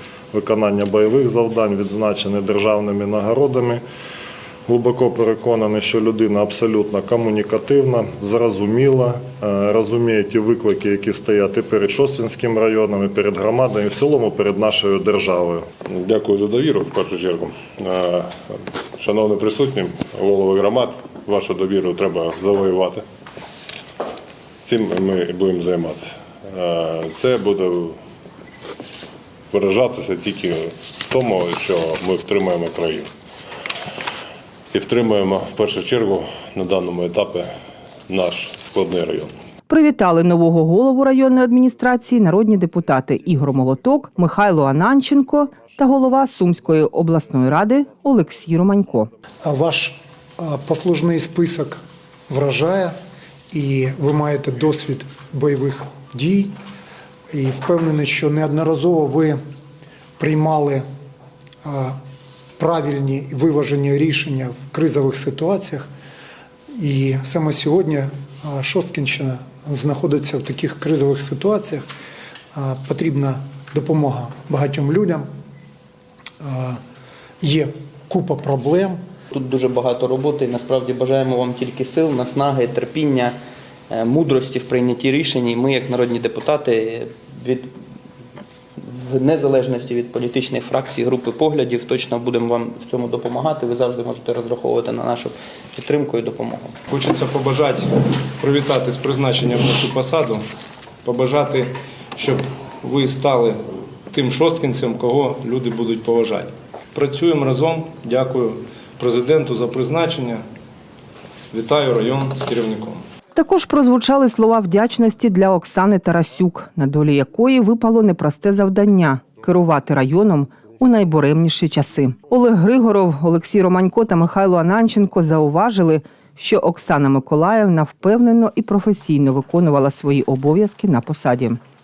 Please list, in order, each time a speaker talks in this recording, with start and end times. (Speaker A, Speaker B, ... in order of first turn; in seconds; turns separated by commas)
Speaker A: 0.3-3.8, Speaker A: 4.7-15.7, Speaker B: 15.9-23.0, Speaker B: 24.6-28.0, Speaker B: 29.5-33.1, Speaker B: 34.7-37.5, Speaker B: 38.1-39.3, Speaker C: 39.7-49.1, Speaker D: 49.4-53.0, Speaker D: 53.5-56.5, Speaker D: 57.3-59.4, Speaker D: 60.2-60.8, Speaker D: 61.6-62.0, Speaker D: 62.6-65.9, Speaker D: 66.8-71.8, Speaker D: 72.5-75.3, Speaker D: 76.4-76.8, Speaker D: 77.4-79.0, Speaker E: 79.3-83.3, Speaker E: 83.9-87.7, Speaker E: 88.8-96.7, Speaker F: 96.9-100.4, Speaker F: 101.0-103.6, Speaker F: 104.1-110.4, Speaker F: 111.5-113.0, Speaker C: 113.3-131.6